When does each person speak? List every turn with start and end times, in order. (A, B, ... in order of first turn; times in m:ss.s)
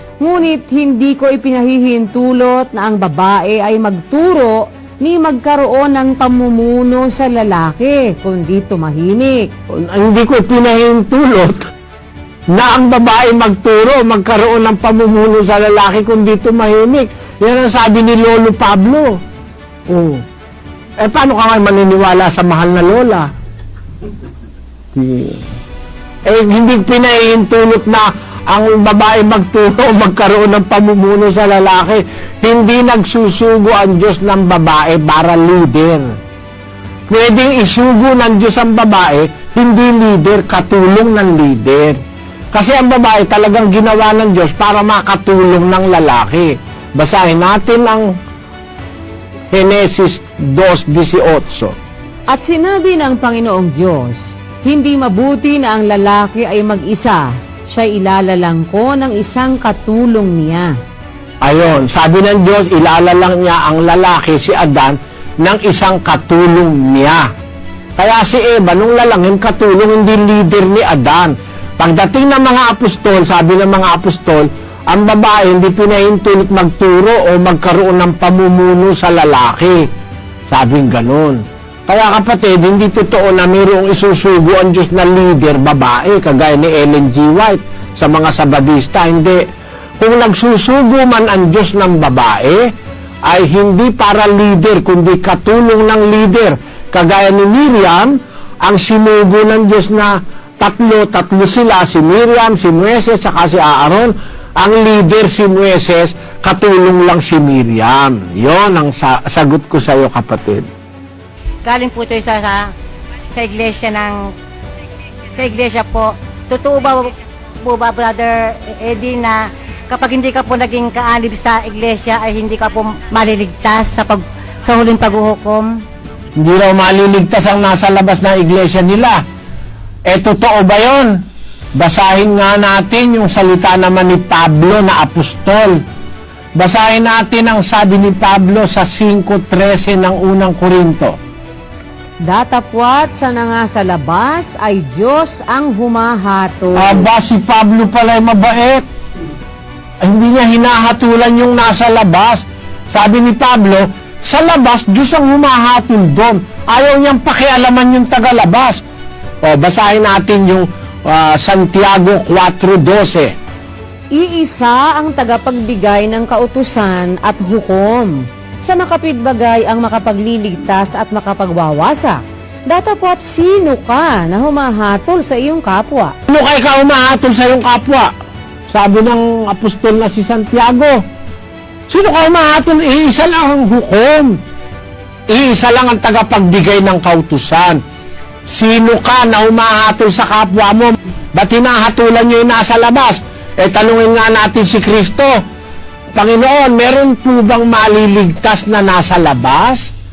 0:00.2-0:09.5 A
0:09.7-0:11.7 B
0:12.5-0:19.2 B
0:19.9-0:20.2 B
0:21.0-0:23.3 B
0:25.0-0:25.4 B
0:26.3-0:36.1 B
0:37.1-0:42.0 B
0:42.5-0:48.1 B
0:49.5-0:51.8 B
0:52.3-1:00.7 A
1:01.4-1:07.3 B
1:08.0-1:19.9 B
1:20.5-1:29.4 B
1:30.0-1:32.6 B
1:33.3-1:50.7 B
1:51.6-1:52.7 C
1:53.3-1:54.2 C
1:55.4-1:59.4 C
1:59.9-2:05.7 C
2:06.4-2:09.2 B
2:10.1-2:11.2 B
2:11.8-2:15.8 B
2:16.6-2:21.2 B
2:22.3-2:27.1 A
2:26.8-2:28.8 B
2:30.0-2:38.8 B
2:39.4-2:43.3 B
2:44.2-2:56.1 A
2:56.3-2:58.1 B
2:58.7-3:01.0 B
3:01.9-3:04.4 B
3:05.3-3:07.8 B
3:08.5-3:15.4 B
3:16.2-3:19.9 B